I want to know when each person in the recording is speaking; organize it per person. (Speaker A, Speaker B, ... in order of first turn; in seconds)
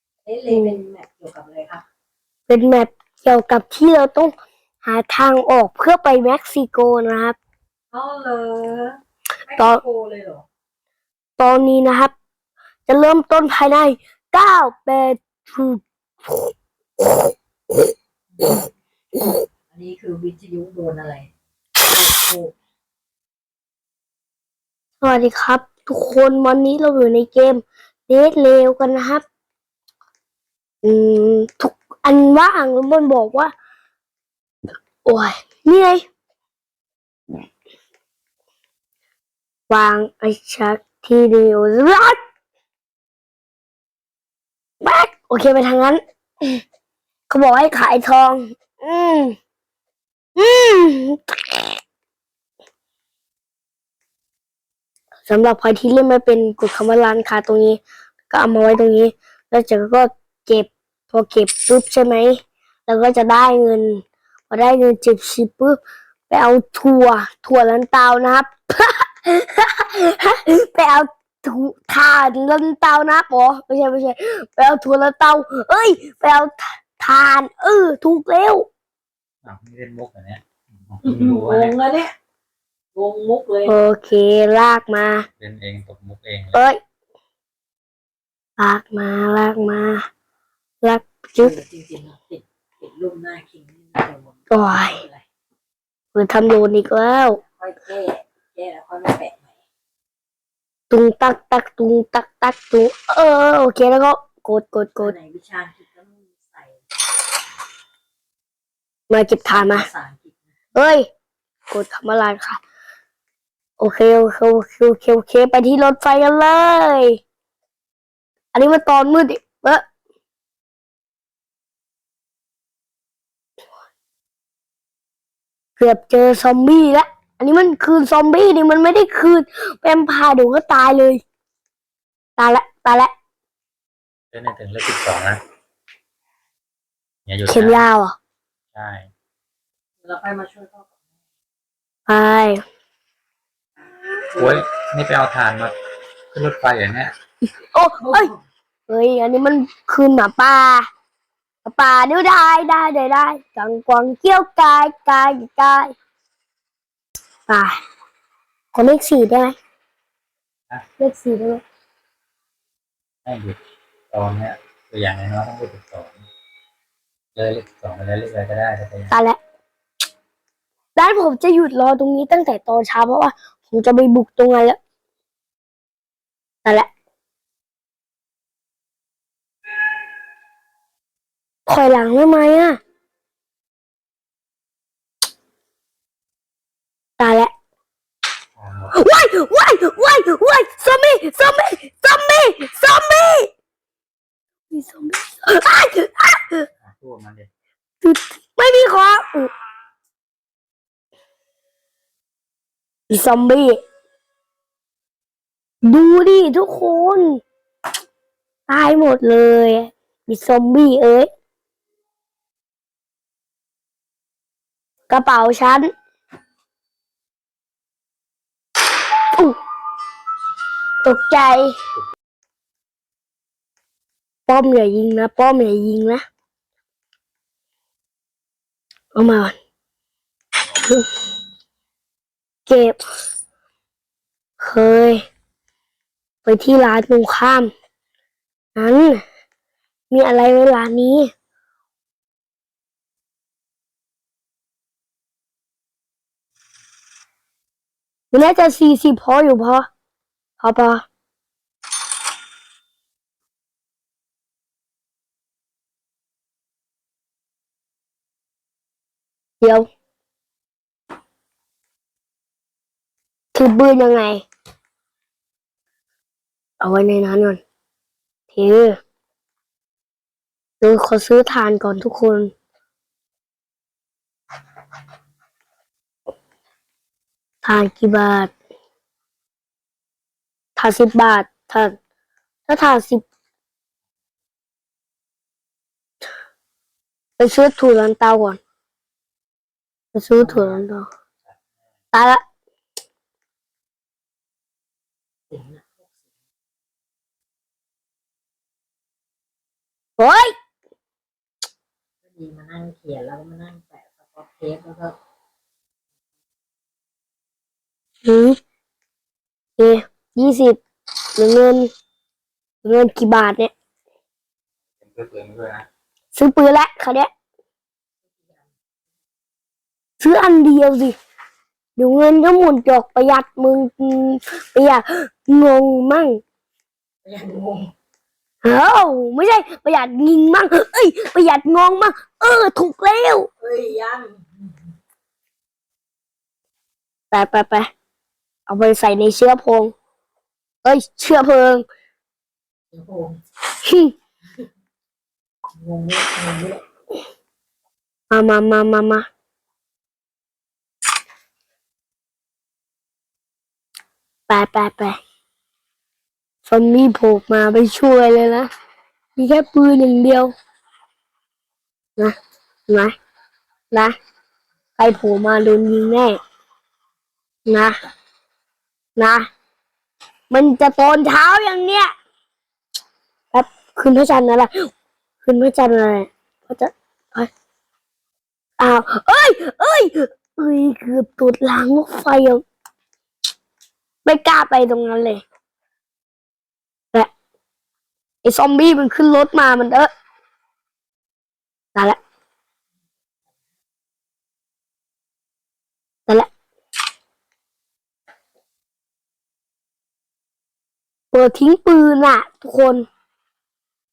Speaker A: 0.2-1.8, 7.9-10.4, 18.4-18.6, 19.7-22.5, 81.0-82.1, 82.9-83.8, 91.4-95.2, 97.4-99.6, 105.0-106.8, 109.4-110.4, 140.0-141.0, 144.3-144.6, 148.0-148.4, 290.4-290.8, 295.5-296.2, 302.2-305.1, 318.4-318.7, 327.2-327.9, 333.6-334.9, 342.9-343.4, 345.7-346.8
Speaker B: 0.5-0.8, 2.5-7.4, 9.6-9.8, 11.4-12.1, 12.9-17.9, 25.0-29.2, 30.8-33.5, 35.0-36.0, 39.7-42.2, 44.8-46.6, 47.3-49.3, 50.4-51.8, 55.3-78.7, 83.7-85.3, 86.5-86.8, 88.6-90.1, 90.8-91.5, 94.5-95.0, 96.1-97.4, 100.9-105.1, 109.1-109.9, 110.7-111.1, 111.7-112.6, 113.8-117.2, 118.5-119.8, 125.8-131.2, 132.4-133.1, 137.5-138.2, 142.1-142.6, 147.6-148.3, 148.9-150.9, 151.6-155.9, 157.5-157.8, 158.7-159.6, 161.0-161.6, 169.1-169.4, 170.9-174.8, 176.6-176.9, 181.7-182.8, 187.2-187.5, 188.9-193.5, 194.7-196.7, 198.0-199.5, 203.1-203.8, 205.8-207.4, 208.7-211.3, 215.1-215.9, 221.0-221.8, 224.5-226.2, 229.1-229.6, 230.7-231.1, 232.7-233.0, 234.6-235.2, 236.4-237.7, 238.8-239.2, 240.1-241.3, 248.3-249.9, 250.6-251.1, 259.6-259.9, 263.5-264.4, 266.8-267.6, 268.5-269.0, 270.8-272.5, 277.6-278.5, 280.8-281.9, 282.7-283.2, 287.4-288.6, 290.1-291.1, 292.1-292.4, 300.2-300.5, 308.2-308.6, 309.8-310.8, 311.4-311.9, 312.8-313.7, 316.3-317.3, 320.2-321.1, 322.0-326.4, 328.6-333.5, 337.3-337.9, 338.7-339.9, 340.8-341.9, 343.8-344.1, 348.3-349.2, 354.5-355.2, 356.6-358.7, 359.4-360.5, 362.9-363.1, 365.0-366.4, 367.6-368.0, 369.2-369.5, 370.5-372.1, 373.5-374.9, 375.4-377.5, 378.8-382.6, 384.2-385.4, 388.4-390.1, 401.3-403.1
Speaker C: 79.4-81.8, 85.4-86.6, 134.3-135.4, 137.2-137.8, 138.7-139.1, 144.3-145.7, 146.3-147.1, 163.2-163.6, 164.1-166.2, 167.3-169.1, 188.6-189.0, 196.8-197.5, 315.0-315.9